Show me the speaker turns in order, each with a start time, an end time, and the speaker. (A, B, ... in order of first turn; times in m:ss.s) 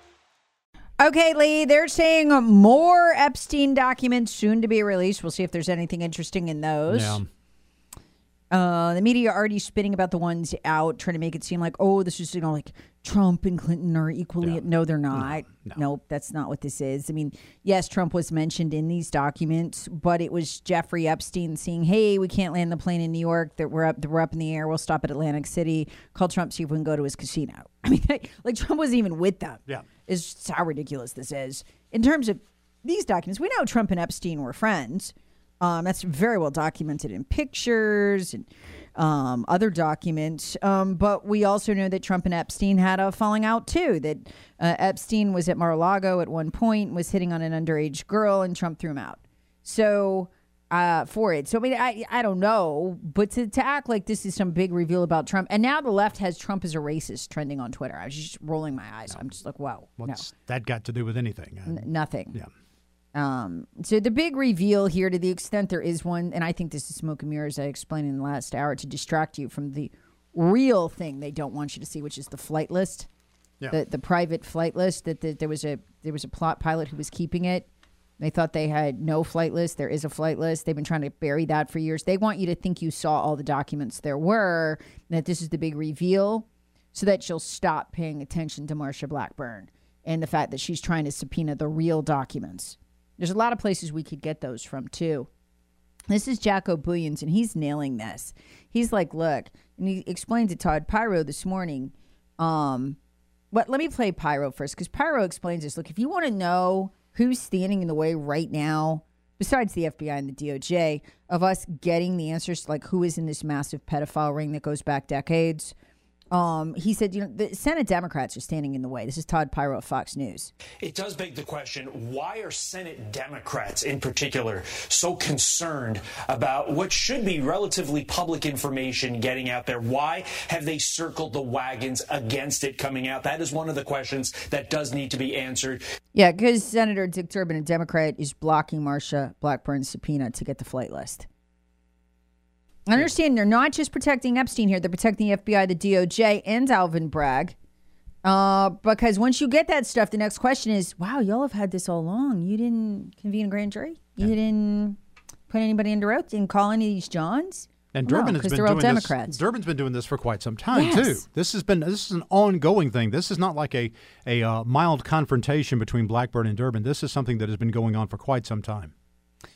0:01.0-0:07.2 A
0:06.9-0:07.3 B
0:08.5-1:00.3 A
0:14.4-0:15.8 B
1:00.0-1:02.5 B
1:01.7-1:02.4 A
1:03.2-1:13.1 A
1:13.7-1:17.7 A
1:18.2-1:35.3 A
1:36.1-1:43.0 A
1:43.5-1:55.7 A
1:56.3-2:00.5 A
2:00.8-2:15.8 C
2:16.1-2:21.3 A
2:22.9-2:27.6 A
2:28.2-2:35.0 A
2:35.5-2:39.4 A
2:37.9-2:48.9 B
2:40.7-2:41.2 A